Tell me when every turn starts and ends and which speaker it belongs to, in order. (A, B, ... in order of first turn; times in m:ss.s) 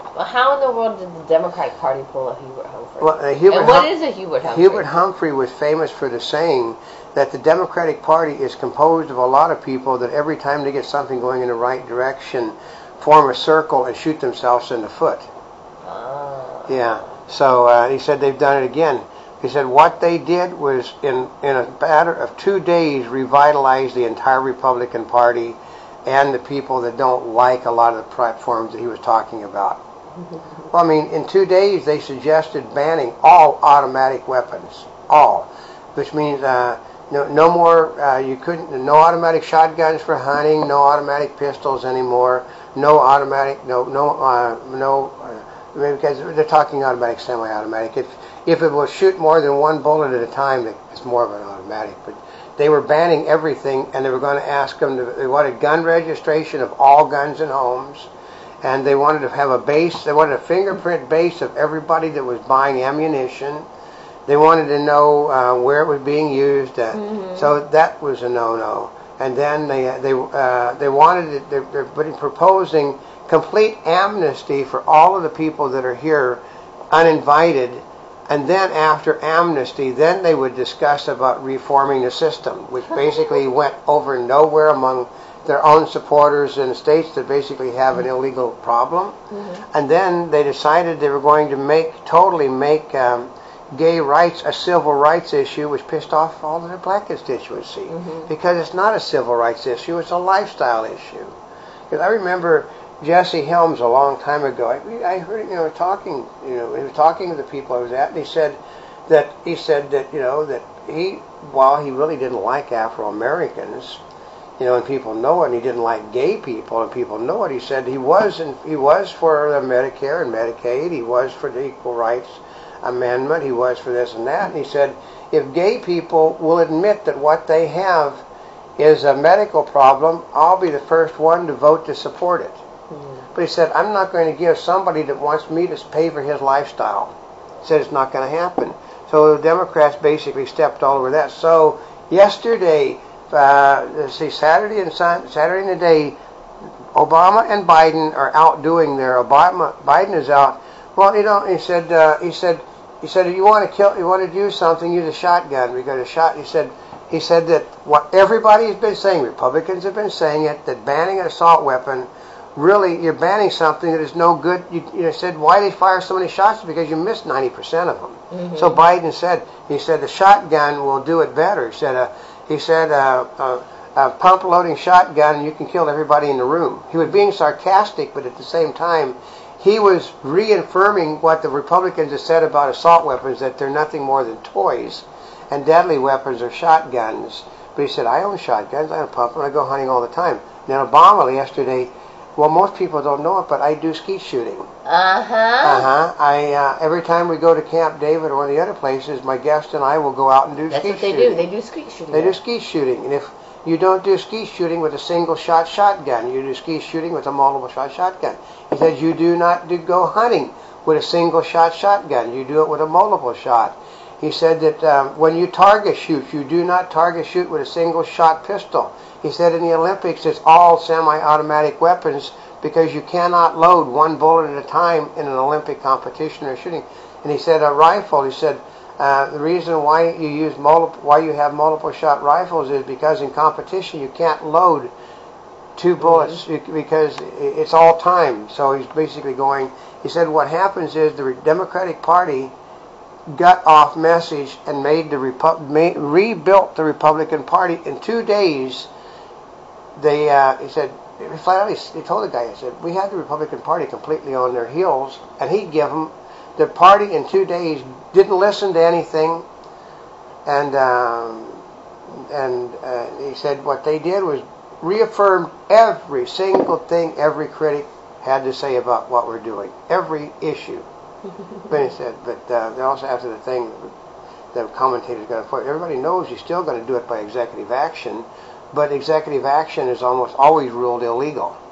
0:00.1-0:04.9 A
0:03.0-0:03.9 B
0:04.4-0:15.3 B
0:15.8-0:16.9 A
0:16.7-0:29.8 B
0:30.7-0:58.1 B
0:58.6-1:03.7 B
1:04.3-1:29.2 B
1:06.9-1:07.5 A
1:29.3-1:29.6 A
1:29.7-1:41.3 B
1:37.9-1:38.3 A
1:41.9-1:54.0 B
1:54.6-2:08.2 B
2:08.8-2:12.6 B
2:12.9-2:13.2 A
2:13.3-2:26.2 B
2:26.9-3:14.7 B
2:48.3-2:48.8 A
3:14.8-3:15.9 A
3:15.6-3:21.4 B
3:20.7-3:22.4 A
3:22.1-3:54.9 B
3:55.8-4:02.5 B
3:56.0-3:56.4 A
4:03.3-4:08.9 B
4:10.0-4:19.5 B
4:20.4-4:30.8 B
4:31.7-4:33.9 B
4:34.5-4:41.6 B